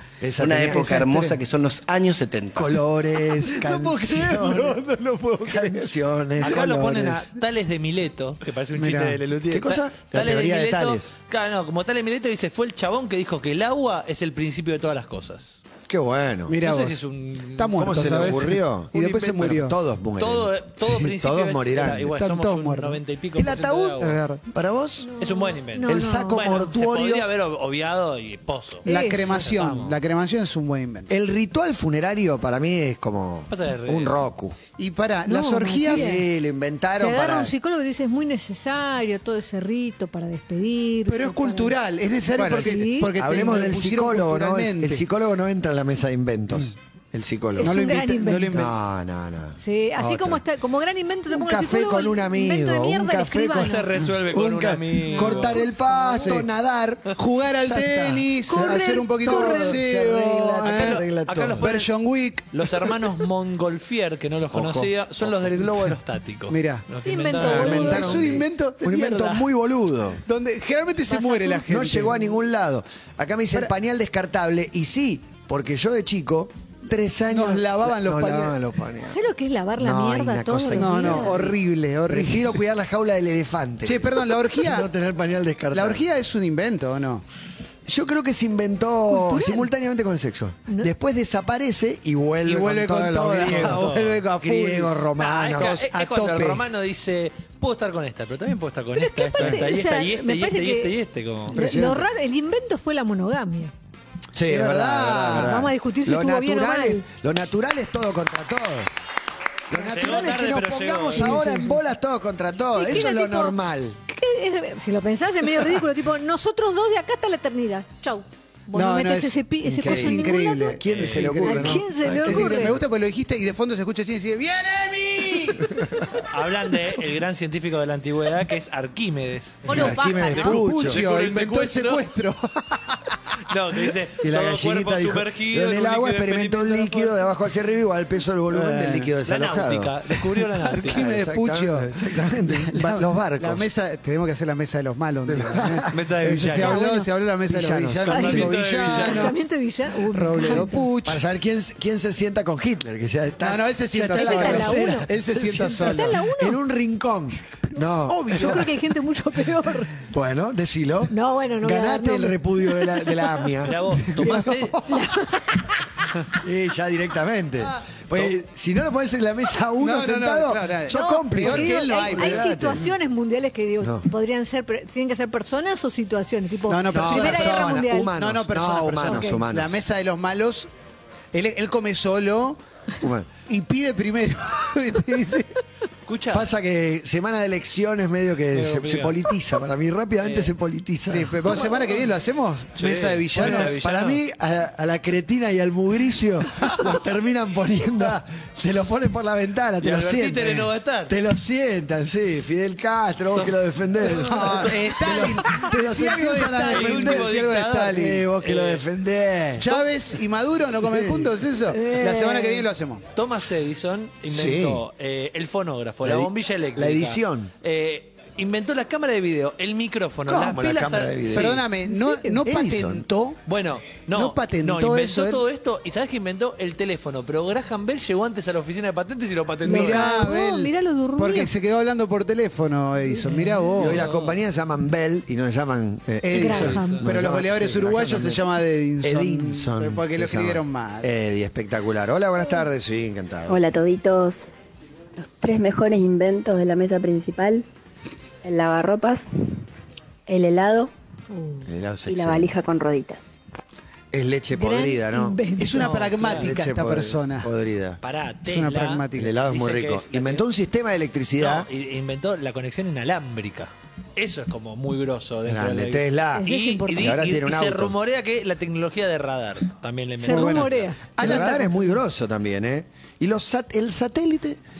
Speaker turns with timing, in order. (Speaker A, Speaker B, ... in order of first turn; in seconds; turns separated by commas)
Speaker A: 0.2-1.1, Speaker B: 0.4-2.8, Speaker C: 0.5-1.4, Speaker A: 2.5-4.8, Speaker D: 3.7-4.6, Speaker C: 3.7-5.7, Speaker A: 5.5-7.3, Speaker D: 6.4-15.6, Speaker C: 8.8-9.2, Speaker A: 9.5-11.1, Speaker A: 15.9-16.6, Speaker C: 16.5-17.0, Speaker D: 16.6-18.5, Speaker C: 17.6-19.8, Speaker A: 17.8-22.1, Speaker D: 20.2-24.2, Speaker C: 22.1-23.0, Speaker A: 23.4-25.1, Speaker C: 24.0-24.4, Speaker E: 25.0-26.4, Speaker D: 25.2-30.0, Speaker A: 25.8-27.3, Speaker E: 28.9-29.3, Speaker C: 28.9-31.1, Speaker A: 31.1-34.6, Speaker D: 33.5-34.2, Speaker C: 34.8-36.2, Speaker E: 35.3-36.2, Speaker A: 35.9-37.5, Speaker E: 37.0-41.8, Speaker C: 41.1-45.0, Speaker A: 42.4-50.4, Speaker E: 42.4-43.1, Speaker E: 47.6-48.6, Speaker C: 47.6-48.7, Speaker E: 49.6-53.9, Speaker A: 51.3-61.7, Speaker D: 53.6-55.6, Speaker E: 55.2-56.4, Speaker C: 56.2-56.5, Speaker C: 57.2-61.0, Speaker E: 58.5-59.8, Speaker D: 60.7-61.9, Speaker C: 61.6-63.1, Speaker D: 62.5-68.1, Speaker A: 64.5-66.0, Speaker C: 66.5-66.8, Speaker E: 67.0-68.2, Speaker A: 67.4-70.2, Speaker C: 67.5-69.5, Speaker C: 70.3-72.2, Speaker E: 71.1-71.6, Speaker A: 71.6-79.2, Speaker C: 77.3-78.5, Speaker E: 79.1-81.4, Speaker A: 79.8-81.6, Speaker C: 80.8-82.6, Speaker A: 82.1-86.0, Speaker C: 83.8-84.9, Speaker C: 85.7-87.3, Speaker A: 87.9-93.9, Speaker E: 89.1-89.7, Speaker C: 92.5-95.0, Speaker D: 93.4-94.3, Speaker A: 94.4-95.8, Speaker D: 95.2-101.8, Speaker C: 95.5-96.6, Speaker E: 99.0-100.9, Speaker A: 99.4-99.8, Speaker A: 101.5-102.0, Speaker E: 101.5-103.7, Speaker A: 104.3-108.9, Speaker C: 104.5-105.6, Speaker E: 105.3-107.0, Speaker A: 109.7-114.0, Speaker D: 109.7-111.8, Speaker C: 109.9-110.3, Speaker E: 112.8-120.8, Speaker C: 118.7-125.7, Speaker A: 119.6-122.8, Speaker D: 120.9-121.3, Speaker E: 121.3-122.7, Speaker D: 126.3-132.0, Speaker C: 129.7-133.2, Speaker E: 129.7-130.5, Speaker A: 129.7-131.0, Speaker D: 133.5-137.2, Speaker A: 134.2-140.0, Speaker C: 138.5-139.1, Speaker D: 139.2-141.1, Speaker C: 140.7-149.4, Speaker A: 140.8-143.7, Speaker A: 145.3-145.9, Speaker D: 145.9-146.8, Speaker E: 146.6-147.1, Speaker A: 147.5-148.8, Speaker D: 148.1-149.4, Speaker E: 148.8-150.8, Speaker C: 150.0-151.2, Speaker A: 150.4-158.7, Speaker C: 153.4-156.2, Speaker E: 154.1-156.6, Speaker C: 158.1-158.7, Speaker E: 158.3-160.0, Speaker A: 160.1-163.8, Speaker E: 161.1-163.6, Speaker D: 163.7-164.9, Speaker C: 164.2-164.5, Speaker E: 164.8-165.8, Speaker A: 166.4-172.9, Speaker C: 169.8-172.6, Speaker E: 170.9-178.2, Speaker A: 173.8-174.1, Speaker C: 176.7-180.7, Speaker A: 176.9-179.8, Speaker E: 179.0-179.4, Speaker C: 181.3-182.6, Speaker A: 183.0-183.3, Speaker C: 183.5-185.5, Speaker D: 186.1-186.5, Speaker A: 186.3-191.6, Speaker D: 188.5-189.2, Speaker D: 190.2-190.5, Speaker C: 191.1-193.8, Speaker D: 192.8-194.2, Speaker A: 193.3-207.3, Speaker D: 199.8-201.2, Speaker C: 204.1-208.2, Speaker D: 204.2-205.3, Speaker D: 206.4-208.8, Speaker A: 207.9-209.8, Speaker C: 209.6-213.0, Speaker A: 210.8-211.4, Speaker E: 211.7-212.7, Speaker D: 213.2-221.7, Speaker A: 214.3-214.8, Speaker A: 216.0-217.5, Speaker A: 220.3-221.6, Speaker C: 221.3-223.4, Speaker E: 221.8-222.4, Speaker A: 222.4-223.1, Speaker D: 223.5-230.1, Speaker C: 224.1-225.4, Speaker E: 229.7-231.5, Speaker C: 229.7-234.0, Speaker E: 233.1-233.6, Speaker D: 233.7-234.4, Speaker A: 233.8-238.4, Speaker C: 236.2-241.1, Speaker E: 236.3-237.0, Speaker D: 236.7-236.9, Speaker A: 239.0-243.6, Speaker F: 243.5-244.5, Speaker F: 245.2-247.7, Speaker F: 248.4-249.3, Speaker F: 250.3-250.9, Speaker E: 251.3-251.6, Speaker A: 251.7-252.6, Speaker F: 252.1-253.2, Speaker A: 254.1-255.4, Speaker E: 254.5-255.9, Speaker C: 255.6-257.5, Speaker D: 255.8-256.6, Speaker A: 256.3-258.0, Speaker D: 258.0-260.5, Speaker C: 258.4-259.3, Speaker A: 259.2-261.7, Speaker D: 261.4-270.9, Speaker A: 265.4-268.0, Speaker E: 266.4-267.2, Speaker E: 270.2-271.6, Speaker C: 270.2-271.9, Speaker A: 271.2-274.6